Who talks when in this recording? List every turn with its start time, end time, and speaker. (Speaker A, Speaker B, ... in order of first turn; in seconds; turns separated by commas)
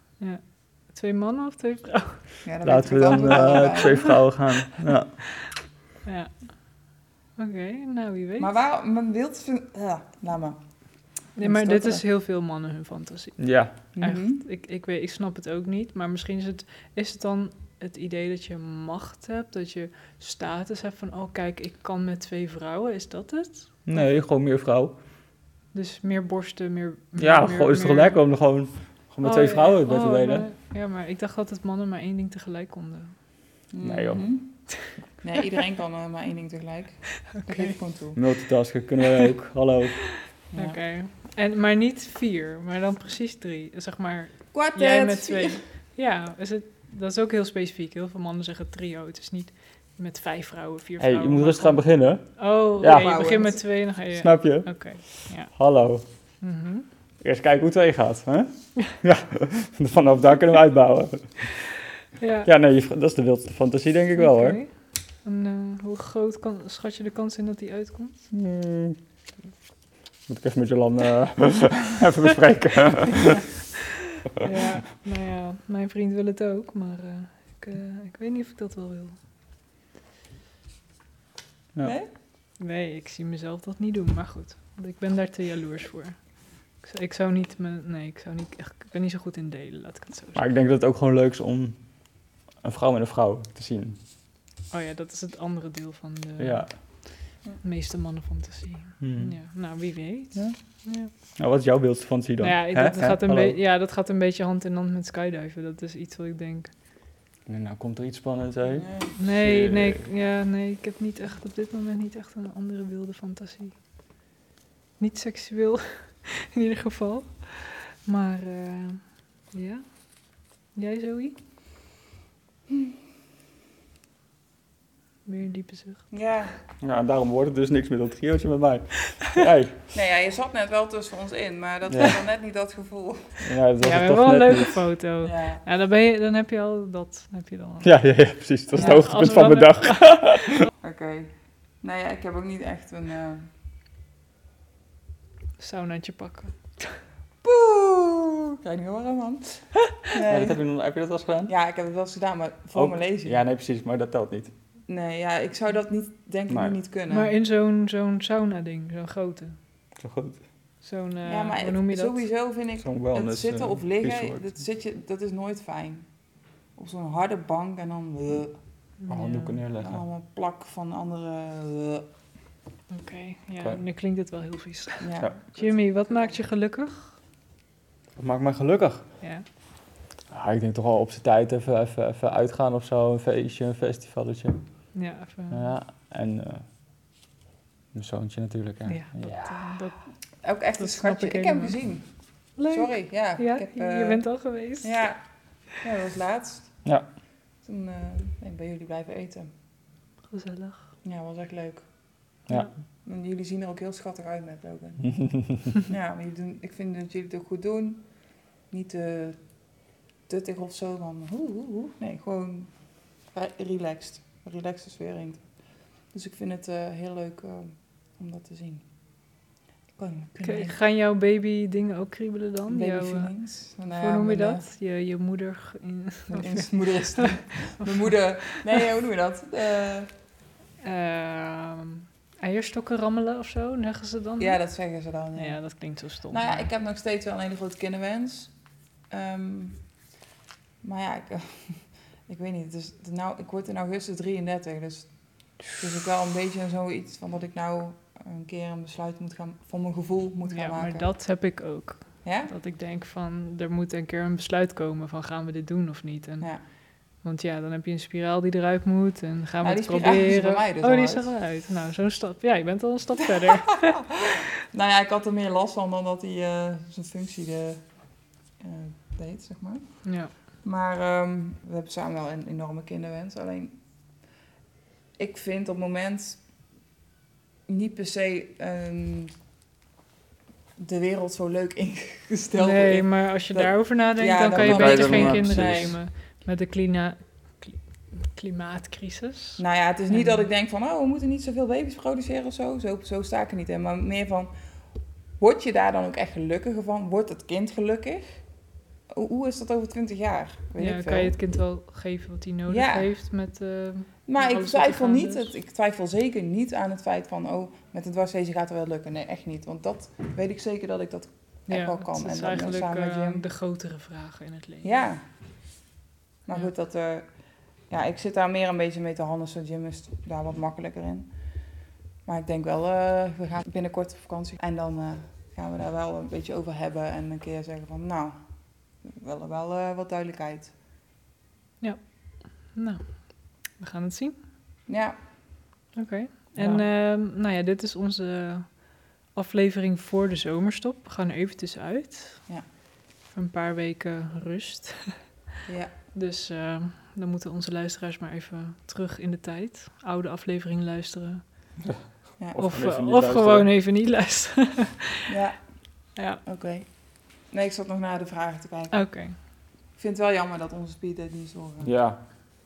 Speaker A: 0.2-2.4, Speaker B: 2.4-4.2, Speaker C: 2.6-5.2, Speaker A: 3.1-4.1, Speaker A: 6.0-6.5, Speaker A: 7.4-8.5, Speaker B: 8.4-10.6, Speaker A: 11.4-24.0, Speaker B: 11.4-12.0, Speaker C: 13.4-13.8, Speaker B: 13.9-14.4, Speaker C: 23.9-24.9, Speaker A: 25.7-28.2, Speaker C: 27.2-30.5, Speaker A: 29.2-33.1, Speaker B: 33.7-34.6, Speaker C: 33.8-34.2, Speaker B: 35.2-38.2, Speaker A: 37.3-37.7, Speaker C: 38.1-40.1, Speaker B: 40.5-40.8, Speaker A: 40.5-55.5, Speaker B: 44.5-45.6, Speaker C: 51.0-53.3, Speaker B: 52.8-53.6, Speaker C: 54.1-56.0, Speaker A: 56.4-56.9, Speaker C: 57.2-61.5, Speaker A: 62.2-62.5, Speaker C: 62.4-64.6, Speaker A: 64.2-68.2, Speaker C: 68.3-69.0, Speaker C: 70.2-73.4, Speaker A: 74.2-79.2, Speaker B: 81.8-82.1, Speaker A: 82.6-86.2, Speaker A: 86.8-90.4, Speaker C: 90.3-91.8, Speaker C: 92.6-94.0, Speaker A: 94.7-101.1, Speaker C: 96.4-96.7, Speaker C: 99.0-99.3, Speaker C: 101.3-103.6, Speaker A: 102.4-106.7, Speaker C: 107.5-110.0, Speaker B: 108.8-109.1, Speaker A: 109.2-113.7, Speaker A: 115.0-119.9, Speaker A: 120.7-121.3, Speaker A: 125.2-126.1, Speaker B: 126.1-126.5, Speaker C: 126.8-129.8, Speaker B: 129.9-133.5, Speaker C: 131.9-132.1, Speaker C: 133.4-134.8, Speaker A: 133.8-137.9, Speaker B: 135.2-135.6, Speaker C: 137.8-140.5, Speaker A: 138.7-140.7, Speaker B: 138.7-139.0, Speaker B: 140.8-143.5, Speaker A: 145.6-147.0, Speaker B: 147.4-150.6, Speaker C: 150.2-151.5, Speaker B: 151.5-153.4, Speaker C: 152.7-154.5, Speaker B: 154.9-157.3, Speaker C: 156.5-156.8, Speaker A: 157.1-159.6, Speaker C: 160.0-160.4, Speaker A: 160.8-162.2, Speaker B: 161.2-166.1, Speaker C: 162.8-164.5, Speaker B: 166.8-168.6, Speaker A: 169.0-169.6, Speaker C: 169.1-170.0, Speaker B: 169.8-172.1, Speaker A: 172.9-177.1, Speaker B: 175.0-176.4, Speaker C: 178.2-179.1, Speaker C: 180.3-184.6, Speaker A: 184.9-185.7, Speaker C: 185.5-186.7, Speaker C: 187.9-189.8, Speaker A: 188.9-190.0, Speaker B: 190.4-192.1, Speaker A: 190.8-191.8, Speaker A: 192.6-195.0, Speaker B: 192.7-194.2, Speaker B: 194.8-196.8, Speaker B: 197.6-199.5, Speaker A: 200.3-200.9, Speaker B: 201.0-201.9, Speaker B: 203.0-209.5, Speaker C: 205.1-205.6, Speaker B: 210.3-212.7, Speaker B: 213.2-215.5, Speaker B: 216.1-218.8, Speaker B: 220.0-220.8, Speaker A: 220.4-223.3, Speaker B: 222.7-224.6, Speaker A: 223.9-228.8, Speaker B: 226.3-230.1, Speaker A: 230.8-234.6, Speaker B: 234.4-235.6, Speaker A: 235.3-236.7, Speaker B: 236.3-238.5, Speaker B: 239.1-239.8, Speaker B: 240.8-251.1, Speaker A: 250.5-256.5, Speaker B: 252.2-252.5, Speaker A: 257.1-264.1, Speaker B: 259.6-261.3, Speaker B: 263.2-267.9, Speaker B: 268.6-270.0, Speaker A: 270.0-270.3, Speaker B: 270.6-273.8, Speaker B: 275.2-276.4, Speaker B: 277.7-279.3, Speaker B: 280.8-285.9, Speaker A: 282.6-290.4, Speaker C: 284.5-286.0, Speaker B: 289.6-294.5, Speaker B: 295.4-298.4, Speaker B: 299.1-301.3, Speaker A: 300.8-305.5, Speaker B: 302.7-303.1, Speaker B: 304.3-313.4, Speaker A: 311.7-314.9, Speaker B: 314.8-315.2, Speaker B: 316.5-321.3, Speaker B: 322.2-328.4, Speaker B: 329.0-330.7, Speaker A: 331.8-334.4, Speaker B: 334.9-335.2, Speaker A: 335.9-342.4, Speaker C: 336.6-336.8, Speaker A: 343.3-345.3, Speaker B: 345.6-345.9, Speaker A: 346.1-351.4, Speaker C: 351.9-353.7, Speaker A: 352.6-355.4, Speaker B: 355.3-355.6, Speaker A: 356.1-356.4, Speaker B: 356.4-356.9, Speaker B: 357.4-358.9, Speaker A: 358.9-359.4, Speaker B: 359.9-361.9, Speaker C: 361.8-362.2